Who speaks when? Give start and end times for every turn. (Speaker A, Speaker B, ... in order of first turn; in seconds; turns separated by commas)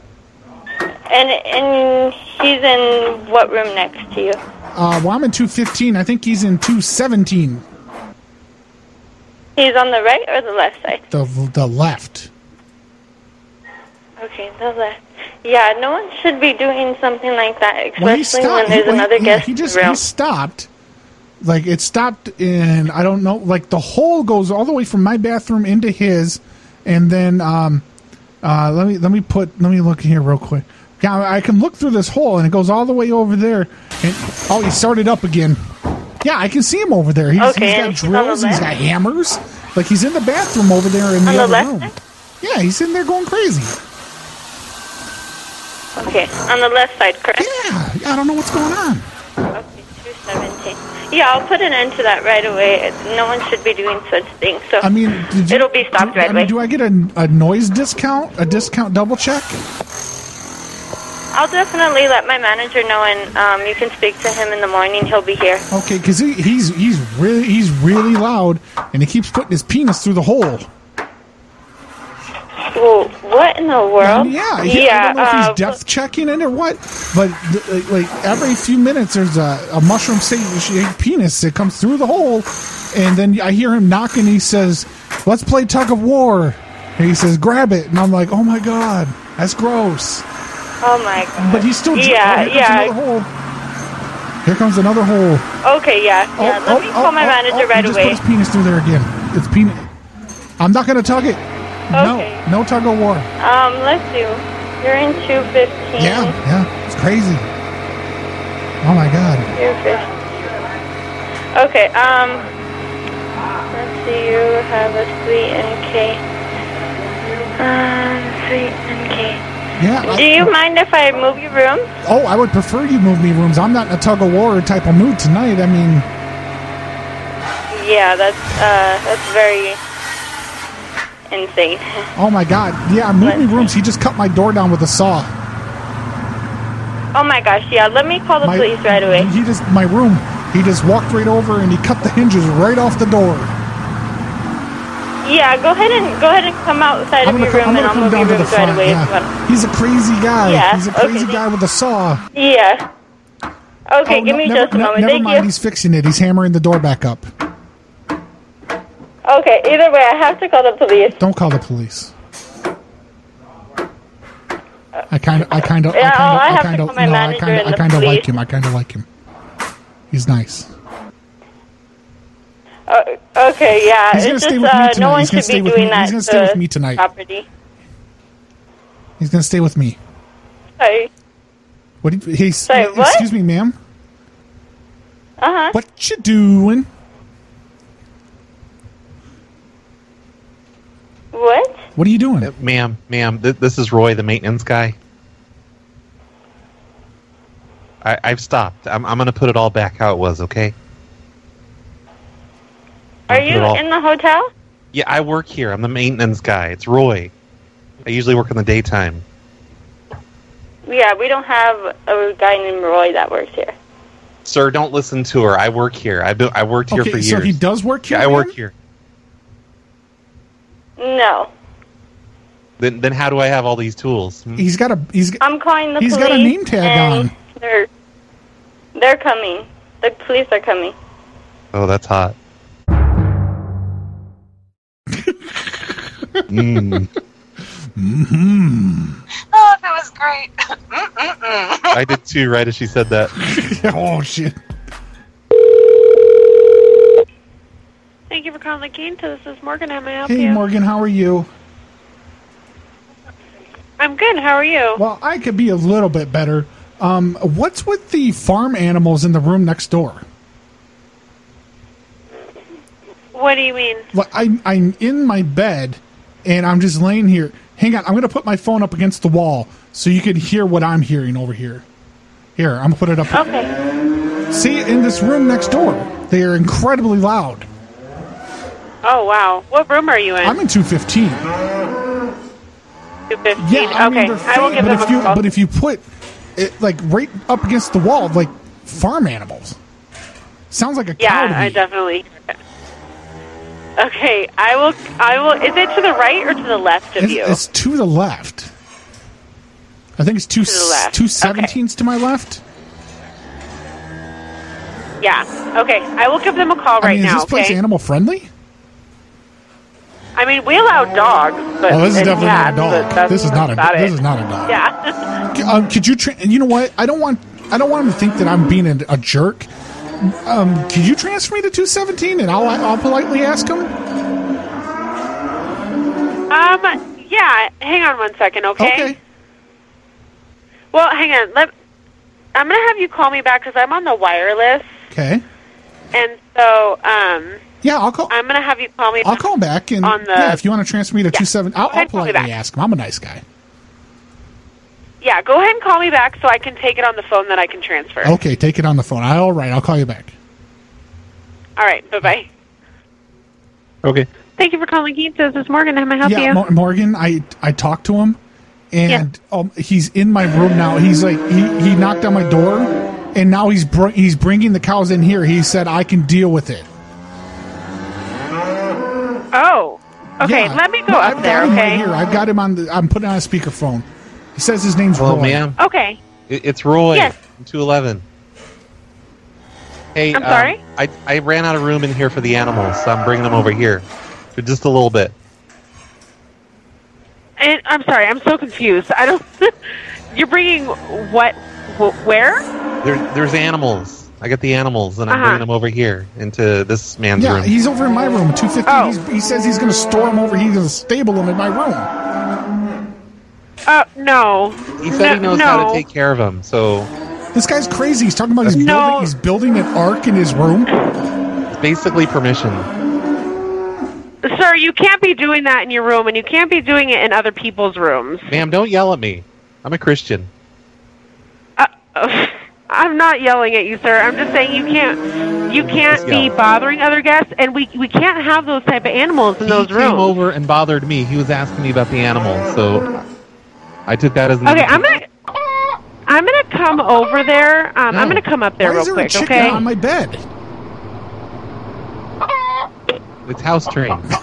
Speaker A: 1.1-4.4, Speaker B: 4.7-7.6, Speaker A: 9.6-11.0, Speaker B: 11.1-12.3, Speaker A: 14.2-20.0, Speaker B: 18.0-20.7, Speaker B: 21.4-27.8, Speaker B: 28.4-35.7, Speaker B: 36.2-43.8, Speaker A: 37.4-38.6, Speaker A: 41.2-41.9, Speaker A: 46.0-47.5, Speaker B: 47.4-49.1, Speaker A: 49.5-54.9, Speaker B: 54.8-59.6, Speaker A: 55.5-56.5, Speaker A: 61.3-65.6, Speaker B: 65.7-70.7, Speaker A: 72.7-75.7, Speaker B: 74.0-90.2, Speaker A: 90.8-92.9, Speaker B: 91.4-93.3, Speaker B: 94.4-95.5, Speaker A: 95.6-98.2, Speaker B: 96.3-99.9, Speaker B: 100.6-103.3, Speaker A: 101.9-102.4, Speaker A: 103.4-106.3, Speaker B: 106.0-107.5, Speaker B: 108.8-109.5, Speaker A: 109.5-110.1, Speaker A: 111.5-112.5, Speaker A: 113.7-116.2, Speaker A: 117.6-119.4, Speaker B: 119.8-120.5, Speaker A: 120.1-121.9, Speaker B: 122.0-126.1, Speaker A: 127.7-129.8, Speaker A: 131.3-132.1, Speaker B: 132.2-135.3, Speaker A: 133.2-133.7, Speaker A: 137.1-139.3, Speaker B: 138.4-143.5, Speaker A: 145.2-149.3, Speaker B: 147.2-152.2, Speaker A: 150.4-151.4, Speaker A: 152.3-152.8, Speaker A: 153.9-155.4, Speaker B: 154.0-157.3, Speaker A: 159.2-161.2, Speaker B: 161.2-162.1, Speaker B: 165.1-169.1, Speaker A: 165.9-168.3, Speaker B: 170.1-170.7, Speaker A: 172.9-177.4, Speaker B: 174.1-177.0, Speaker B: 179.2-180.0, Speaker A: 180.8-181.1, Speaker B: 182.0-183.8, Speaker A: 182.7-183.2, Speaker A: 185.4-185.7, Speaker B: 185.7-186.9, Speaker A: 191.3-191.8, Speaker B: 191.9-192.5, Speaker C: 192.4-194.9, Speaker C: 198.0-200.7, Speaker C: 203.3-203.8, Speaker A: 203.3-204.5, Speaker C: 204.9-207.3, Speaker C: 208.0-209.2, Speaker A: 210.8-213.7, Speaker C: 214.4-217.6, Speaker B: 216.9-218.5, Speaker C: 218.1-218.7, Speaker A: 221.0-221.5, Speaker C: 222.8-224.6, Speaker B: 224.5-225.4, Speaker A: 225.4-227.8, Speaker B: 226.0-227.3, Speaker A: 228.9-230.9, Speaker C: 231.7-232.3, Speaker B: 235.2-236.4, Speaker C: 236.5-237.1, Speaker B: 237.8-239.2, Speaker C: 241.9-243.3, Speaker B: 243.4-244.6, Speaker D: 248.3-250.6, Speaker B: 250.2-251.5, Speaker D: 254.0-255.0, Speaker B: 254.9-260.2, Speaker D: 263.3-264.0, Speaker B: 264.1-271.8, Speaker B: 272.6-273.4, Speaker D: 273.3-273.7, Speaker B: 274.5-277.7, Speaker D: 279.0-280.6, Speaker B: 280.4-281.4, Speaker D: 283.3-285.4, Speaker B: 283.6-286.0, Speaker B: 286.6-289.8, Speaker B: 290.7-291.8, Speaker D: 291.2-292.5, Speaker D: 294.0-297.6, Speaker B: 297.2-298.7, Speaker B: 300.2-302.6, Speaker D: 300.8-301.7, Speaker D: 305.2-307.8, Speaker B: 307.0-308.5, Speaker D: 310.4-315.2, Speaker B: 311.9-314.8, Speaker B: 315.5-323.9, Speaker D: 326.5-329.1, Speaker B: 328.8-329.2, Speaker D: 330.9-331.7, Speaker D: 332.5-334.9, Speaker B: 335.1-335.4, Speaker D: 336.1-337.6, Speaker B: 337.8-338.3, Speaker D: 338.3-339.4, Speaker B: 339.2-343.4, Speaker D: 340.0-340.6, Speaker D: 341.3-342.5, Speaker D: 345.2-348.4, Speaker B: 348.2-350.3, Speaker D: 351.8-352.5, Speaker D: 354.6-356.6, Speaker B: 356.2-358.4, Speaker B: 358.9-366.9, Speaker D: 369.5-372.0, Speaker B: 370.4-375.6, Speaker C: 375.1-375.8, Speaker D: 375.8-376.2, Speaker C: 376.5-378.2, Speaker C: 380.1-384.1, Speaker D: 380.3-380.8, Speaker C: 384.6-385.3, Speaker D: 387.6-389.7, Speaker D: 390.3-392.6, Speaker C: 393.0-397.7, Speaker D: 395.3-395.6, Speaker B: 397.4-402.1, Speaker D: 398.9-399.1, Speaker D: 403.9-406.0, Speaker C: 405.0-407.1, Speaker B: 407.5-410.9, Speaker C: 408.6-408.9, Speaker D: 408.7-409.3, Speaker C: 411.7-412.9, Speaker D: 414.4-418.5, Speaker C: 418.5-420.5, Speaker D: 421.8-430.4, Speaker C: 425.8-426.5, Speaker C: 429.6-433.1, Speaker C: 434.1-435.2, Speaker D: 434.6-435.2, Speaker D: 436.2-439.8, Speaker C: 438.1-438.4, Speaker B: 438.1-440.4, Speaker C: 443.4-444.3